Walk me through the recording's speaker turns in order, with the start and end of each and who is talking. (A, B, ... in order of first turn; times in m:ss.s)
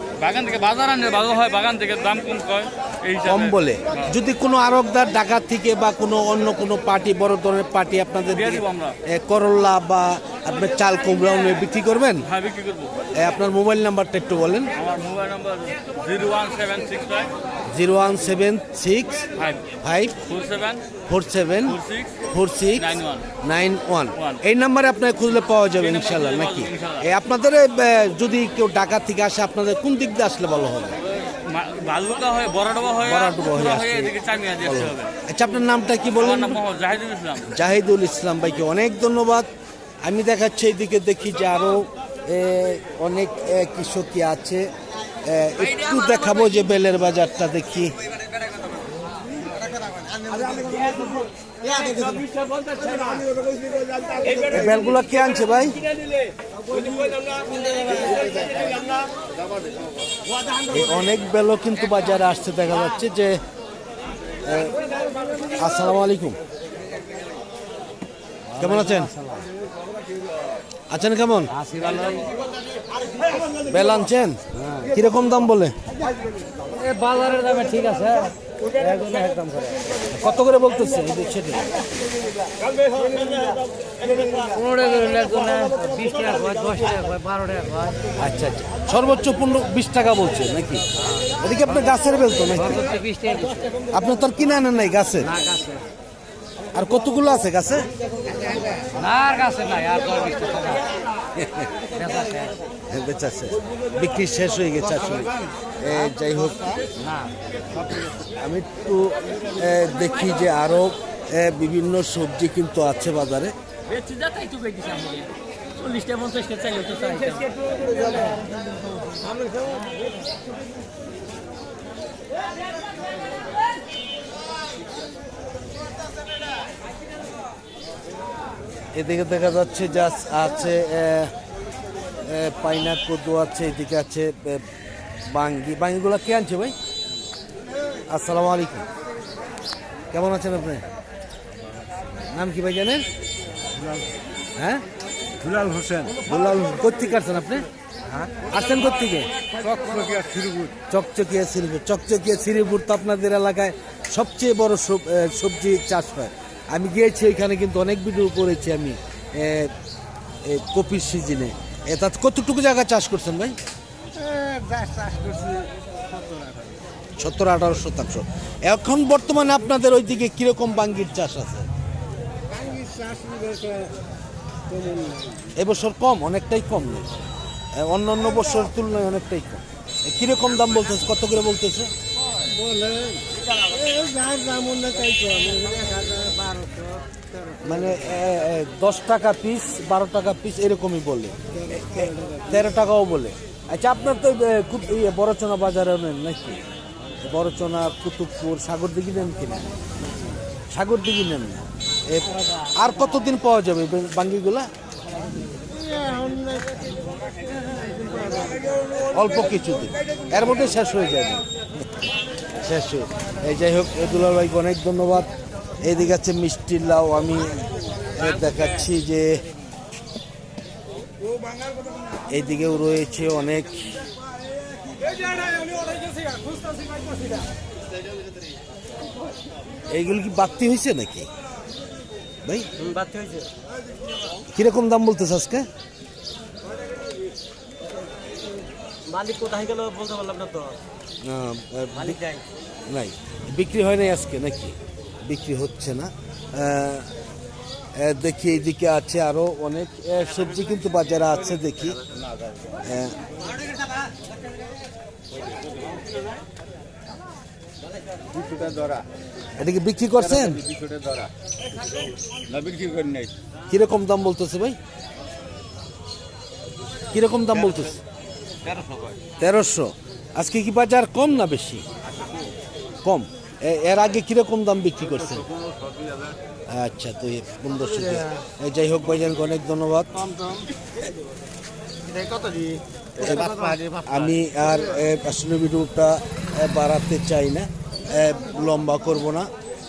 0:00.2-0:04.1 A
0:03.2-0:12.3 B
0:08.3-0:09.0 A
0:12.3-0:13.0 A
0:13.2-0:14.7 B
0:14.8-0:17.3 A
0:17.7-0:19.3 B
0:19.4-0:19.6 A
0:19.8-0:20.2 B
0:20.3-0:20.8 A
0:21.1-0:31.0 B
0:21.7-0:22.1 A
0:22.8-0:23.3 A
0:25.8-0:27.0 A
0:31.2-0:35.1 A
0:33.0-0:36.6 B
0:36.2-0:37.5 A
0:37.4-0:39.5 B
0:40.0-0:44.7 B
0:45.2-0:48.0 B
0:50.4-0:50.9 C
0:51.6-0:53.3 C
0:54.4-0:55.8 B
1:00.7-1:03.4 B
1:04.4-1:04.8 B
1:05.4-1:06.4 B
1:08.5-1:09.5 C
1:08.6-1:09.1 B
1:10.9-1:11.5 B
1:11.5-1:12.4 C
1:13.7-1:15.8 B
1:14.6-1:14.9 C
1:16.7-1:19.8 C
1:20.1-1:21.7 B
1:24.1-1:28.0 C
1:28.2-1:30.8 B
1:31.4-1:32.9 B
1:32.6-1:33.7 C
1:33.9-1:35.3 B
1:35.2-1:35.8 C
1:36.7-1:37.9 B
1:38.9-1:40.9 C
1:41.4-1:41.7 B
1:41.9-1:42.6 C
1:42.9-1:46.8 B
1:47.0-1:47.3 C
1:48.1-1:53.6 B
1:54.0-1:55.2 A
1:54.5-1:55.2 C
1:55.8-1:57.5 C
1:55.9-1:57.2 A
2:08.9-2:11.3 B
2:12.2-2:14.7 B
2:15.3-2:16.8 B
2:18.1-2:18.9 B
2:20.1-2:20.8 B
2:22.3-2:23.0 B
2:24.6-2:24.8 B
2:25.4-2:27.7 B
2:28.4-2:29.9 B
2:29.6-2:30.7 C
2:30.6-2:39.7 B
2:40.4-2:43.6 B
2:44.2-2:45.7 C
2:46.2-2:46.6 C
2:47.2-2:51.7 B
2:52.6-2:53.9 C
2:54.7-2:55.3 C
2:55.6-2:57.1 B
2:57.8-3:01.9 B
3:02.5-3:07.6 C
3:07.6-3:16.6 B
3:17.2-3:19.7 B
3:20.7-3:24.7 B
3:25.8-3:26.8 C
3:28.1-3:28.5 C
3:29.1-3:31.4 B
3:32.6-3:35.3 B
3:35.8-3:39.4 B
3:42.3-3:43.9 B
3:49.9-3:51.3 B
3:52.8-3:53.5 C
3:54.5-3:55.7 B
3:59.1-4:00.8 C
4:01.2-4:02.2 B
4:02.0-4:02.4 C
4:02.9-4:07.1 B
4:08.0-4:12.0 B
4:12.8-4:13.2 B
4:18.4-4:19.0 C
4:19.6-4:20.7 B
4:20.8-4:21.2 C
4:22.5-4:23.2 C
4:23.7-4:24.8 B
4:27.1-4:28.0 B
4:29.4-4:31.8 B
4:33.0-4:35.5 B
4:36.7-4:40.6 B
4:42.1-4:42.8 C
4:43.2-4:49.5 B